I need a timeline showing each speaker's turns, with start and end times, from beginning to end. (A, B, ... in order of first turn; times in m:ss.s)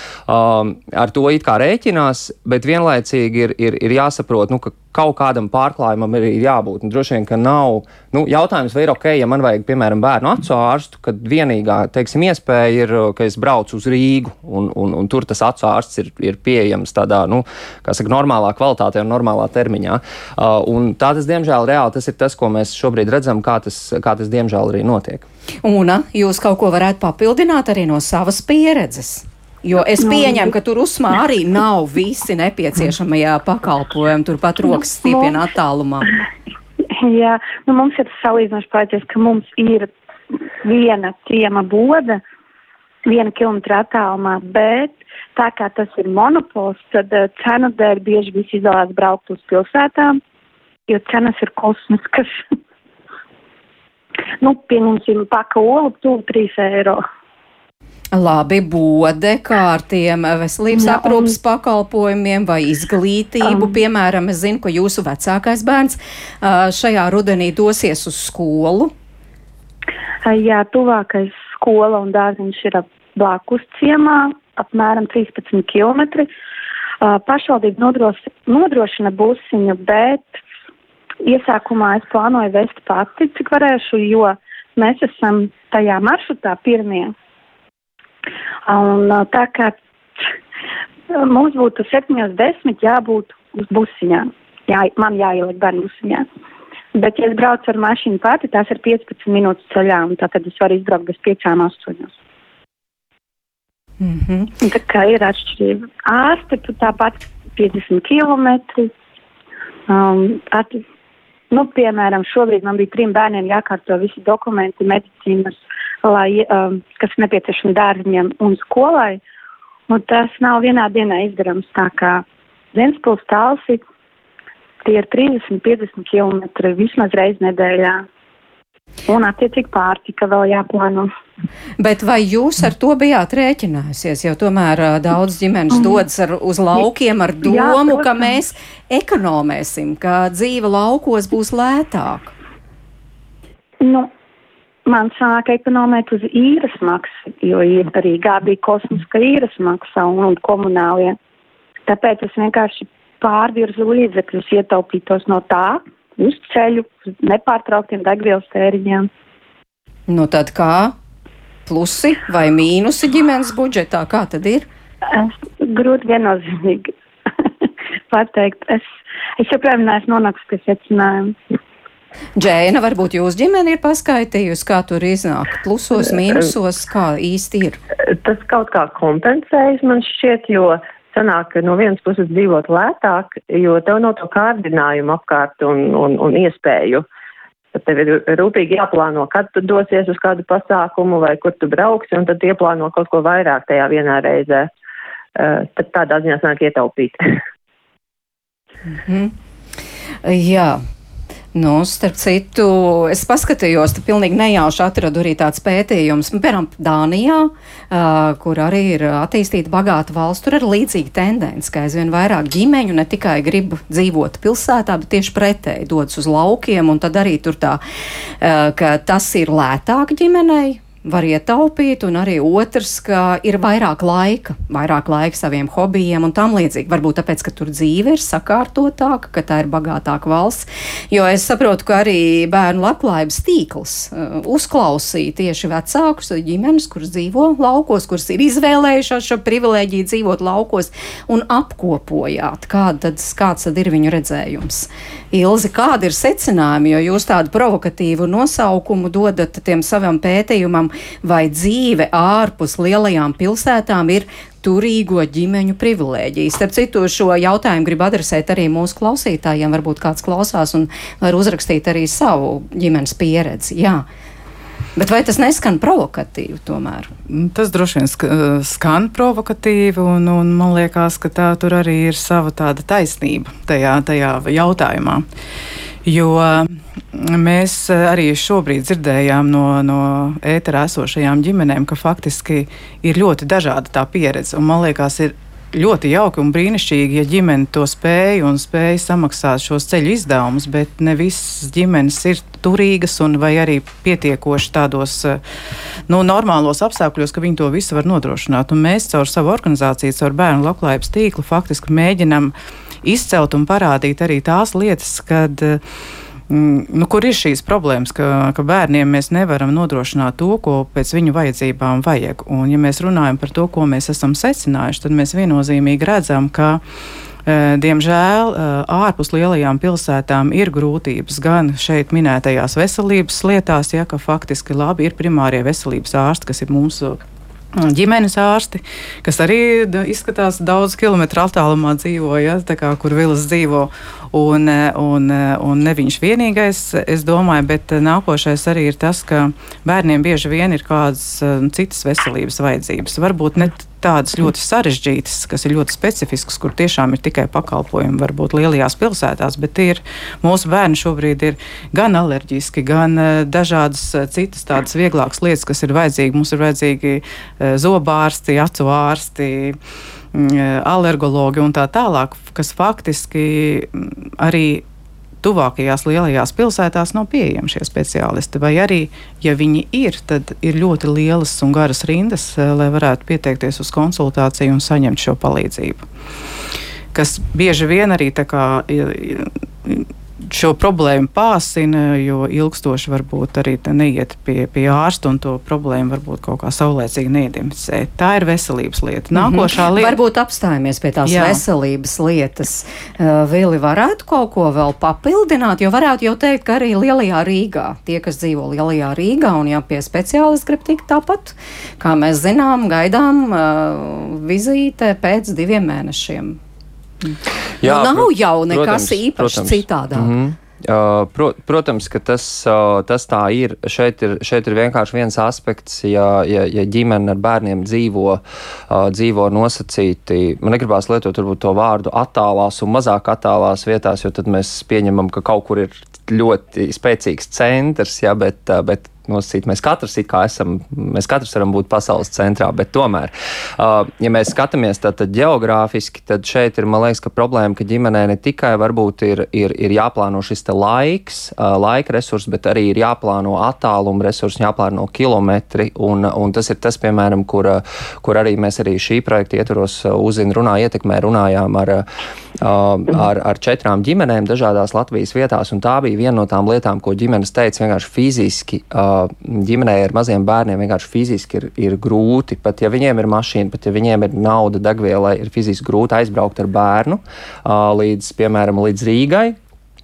0:00.3-0:25.2 A
0:25.6-0:36.1 B
0:30.0-0:30.5 C
0:35.0-0:35.4 C
0:36.9-0:39.9 C
0:40.6-0:42.2 C
0:43.0-0:50.2 C
0:50.9-0:52.4 C
0:54.4-0:57.0 C
0:58.1-1:08.9 B
1:00.7-1:01.3 C
1:03.4-1:03.8 C
1:10.2-1:16.3 C
1:17.0-1:20.4 C
1:21.2-1:27.1 C
1:28.6-1:29.8 C
1:31.1-1:36.2 C
1:36.9-1:42.1 C
1:44.0-1:44.5 B
1:44.6-1:48.9 C
1:49.9-1:50.8 C
1:51.5-1:59.2 C
1:59.9-2:03.8 C
2:04.8-2:08.0 C
2:09.1-2:11.1 C
2:11.8-2:22.3 B
2:15.7-2:16.0 C
2:17.4-2:18.3 C
2:23.8-2:24.1 C
2:24.8-2:31.2 C
2:31.8-2:39.1 C
2:40.1-2:40.9 B
2:41.6-2:44.7 B
2:45.1-2:46.9 C
2:47.4-2:48.8 C
2:49.4-2:51.4 C
2:52.4-2:57.8 B
2:58.1-3:07.0 D
3:07.7-3:14.7 D
3:15.4-3:17.4 D
3:18.9-3:19.3 B
3:20.2-3:20.8 B
3:21.5-3:37.8 B
3:38.4-4:24.0 B
4:25.0-4:27.1 B
4:27.3-4:35.2 E
4:36.0-4:55.4 E
4:56.1-5:05.8 E
5:06.5-5:16.8 E
5:17.4-5:27.2 E
5:27.8-5:59.8 E
6:00.3-6:04.8 E
6:05.4-6:16.0 E
6:17.1-6:30.2 E
6:29.3-6:46.6 B
6:31.3-6:31.6 E
6:47.2-6:50.3 B
6:47.8-7:32.0 A
7:32.6-7:49.6 A